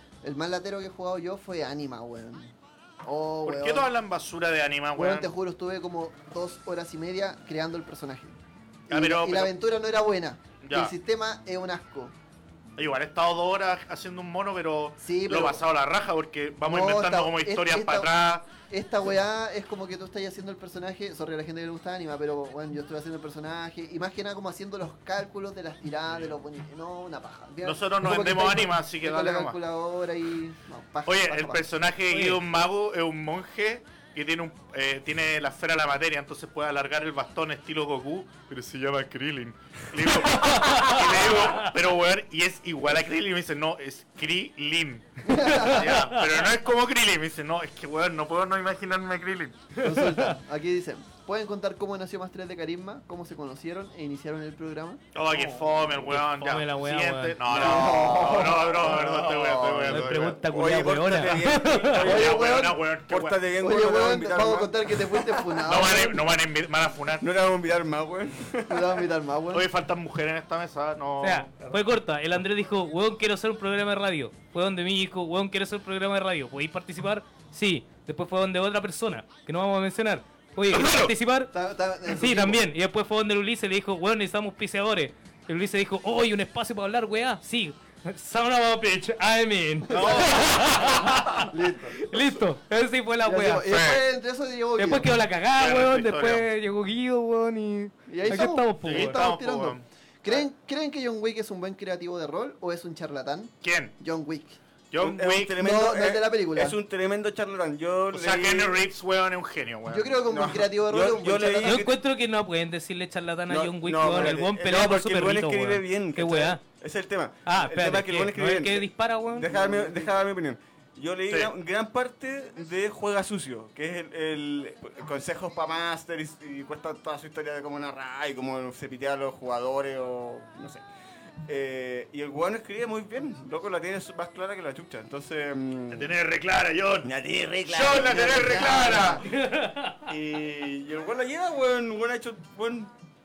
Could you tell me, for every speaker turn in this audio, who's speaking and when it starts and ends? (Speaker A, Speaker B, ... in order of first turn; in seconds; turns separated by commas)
Speaker A: 0.2-3.9, Speaker B: 3.5-5.3, Speaker A: 5.0-12.2, Speaker B: 8.9-9.5, Speaker B: 10.6-10.9, Speaker B: 12.8-18.5, Speaker A: 15.0-15.6, Speaker A: 16.6-18.1, Speaker A: 18.7-31.6, Speaker B: 27.6-29.6, Speaker B: 31.1-49.6, Speaker C: 32.1-32.4, Speaker C: 40.3-41.7, Speaker A: 45.2-45.9, Speaker C: 45.6-46.4, Speaker C: 49.8-50.4, Speaker A: 49.8-55.0, Speaker B: 55.1-60.4, Speaker C: 56.0-57.4, Speaker D: 57.5-65.7, Speaker A: 57.5-59.0, Speaker C: 59.9-62.1, Speaker B: 61.8-63.4, Speaker A: 62.0-62.8, Speaker A: 63.6-66.2, Speaker B: 65.6-67.3, Speaker D: 67.2-69.1, Speaker A: 68.7-69.7, Speaker B: 69.5-71.8, Speaker C: 71.2-81.5, Speaker B: 80.7-81.1, Speaker A: 81.5-82.6, Speaker C: 82.1-94.0, Speaker A: 89.9-90.5, Speaker B: 89.9-91.3, Speaker A: 91.5-92.1, Speaker A: 93.2-95.1, Speaker B: 93.7-94.0, Speaker C: 94.8-99.2, Speaker B: 95.6-96.5, Speaker A: 98.1-104.6, Speaker B: 98.2-99.8, Speaker B: 103.6-104.0, Speaker B: 104.9-105.5, Speaker D: 105.0-108.8, Speaker A: 105.6-106.8, Speaker B: 108.1-110.1, Speaker A: 109.9-111.9, Speaker D: 110.3-111.9, Speaker C: 111.6-116.6, Speaker D: 113.5-130.9, Speaker C: 117.5-119.5, Speaker A: 119.5-120.0, Speaker D: 131.4-136.2, Speaker B: 135.9-137.1, Speaker D: 137.0-139.2, Speaker B: 137.7-139.2, Speaker A: 138.2-139.2, Speaker C: 139.3-140.0, Speaker D: 140.1-142.9